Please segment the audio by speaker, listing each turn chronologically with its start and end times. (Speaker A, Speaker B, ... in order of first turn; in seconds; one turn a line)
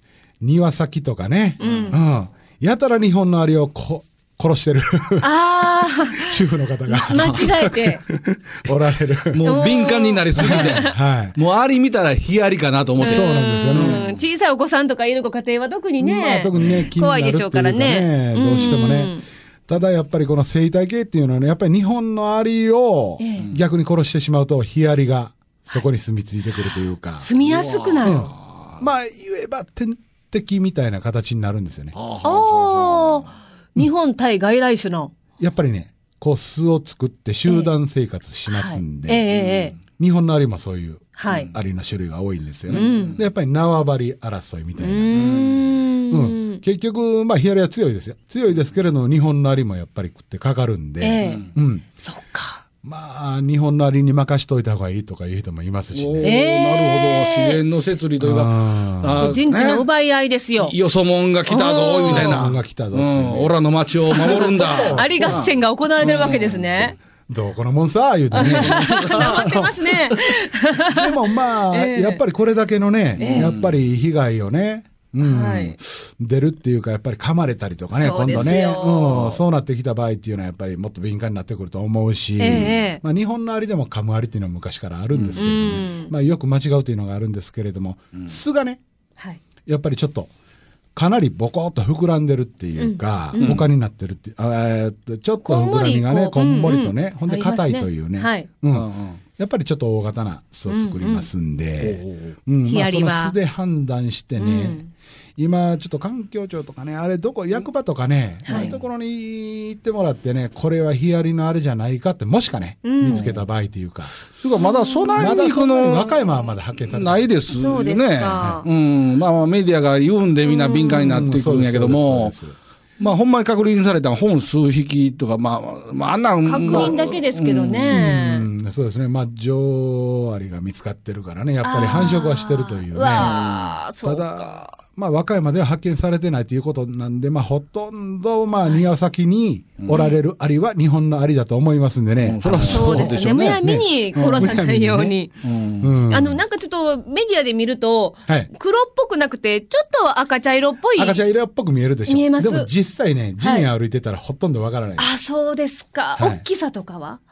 Speaker A: 0.4-5.3
Speaker B: 1.6-2.0
Speaker C: 1.6-1.9
Speaker B: 5.2-8.0
Speaker A: 5.8-9.5
Speaker C: 7.1-7.5
Speaker C: 9.3-14.2
Speaker B: 9.4-10.9
Speaker A: 10.4-11.3
Speaker B: 13.0-19.2
Speaker A: 13.0-14.0
Speaker A: 16.0-27.3
Speaker C: 16.5-16.9
Speaker B: 23.2-23.5
Speaker B: 27.2-28.3
Speaker C: 27.4-28.8
Speaker A: 28.0-31.9
Speaker C: 31.9-33.3
Speaker B: 32.2-35.1
Speaker A: 35.4-39.3
Speaker B: 38.5-39.8
Speaker C: 39.3-39.8
Speaker A: 39.9-45.3
Speaker B: 41.2-41.5
Speaker C: 42.7-43.2
Speaker B: 42.7-43.2
Speaker B: 44.8-46.6
Speaker C: 45.1-45.6
Speaker A: 46.1-51.9
Speaker B: 51.0-52.6
Speaker A: 52.8-56.4
Speaker C: 55.9-59.9
Speaker B: 56.2-57.6
Speaker A: 58.2-59.3
Speaker B: 59.2-60.8
Speaker C: 60.6-66.9
Speaker B: 61.5-62.4
Speaker A: 62.1-63.5
Speaker A: 64.1-65.5
Speaker B: 64.1-66.9
Speaker A: 67.3-69.9
Speaker B: 68.3-71.1
Speaker C: 68.4-69.5
Speaker A: 70.9-88.8
Speaker B: 71.7-72.2
Speaker B: 73.2-73.5
Speaker C: 73.2-73.8
Speaker B: 75.2-75.8
Speaker B: 77.9-79.4
Speaker C: 79.1-79.3
Speaker B: 82.4-83.0
Speaker B: 85.3-86.1
Speaker A: 89.7-90.3
Speaker A: 91.0-104.8
Speaker B: 92.8-93.7
Speaker C: 93.4-93.7
Speaker B: 95.4-98.5
Speaker C: 98.7-99.2
Speaker B: 100.7-101.3
Speaker C: 101.8-102.3
Speaker B: 102.6-103.3
Speaker B: 104.4-104.9
Speaker A: 105.4-114.2
Speaker B: 108.5-108.7
Speaker C: 108.5-108.8
Speaker B: 112.8-113.3
Speaker C: 113.0-113.5
Speaker C: 114.3-122.4
Speaker B: 114.6-115.5
Speaker A: 115.2-117.3
Speaker B: 117.5-118.7
Speaker B: 120.4-121.2
Speaker A: 121.0-122.5
Speaker C: 123.0-128.1
Speaker B: 126.4-128.5
Speaker A: 126.7-127.1
Speaker A: 127.9-133.3
Speaker B: 131.6-134.5
Speaker C: 133.1-133.7
Speaker A: 134.0-145.2
Speaker B: 139.9-140.2
Speaker C: 142.2-143.6
Speaker B: 142.6-145.3
Speaker C: 144.2-144.5
Speaker C: 145.4-145.9
Speaker A: 145.8-146.4
Speaker B: 146.1-151.2
Speaker A: 150.9-155.1
Speaker B: 152.1-152.7
Speaker B: 153.4-153.7
Speaker B: 155.0-157.2
Speaker A: 156.2-156.4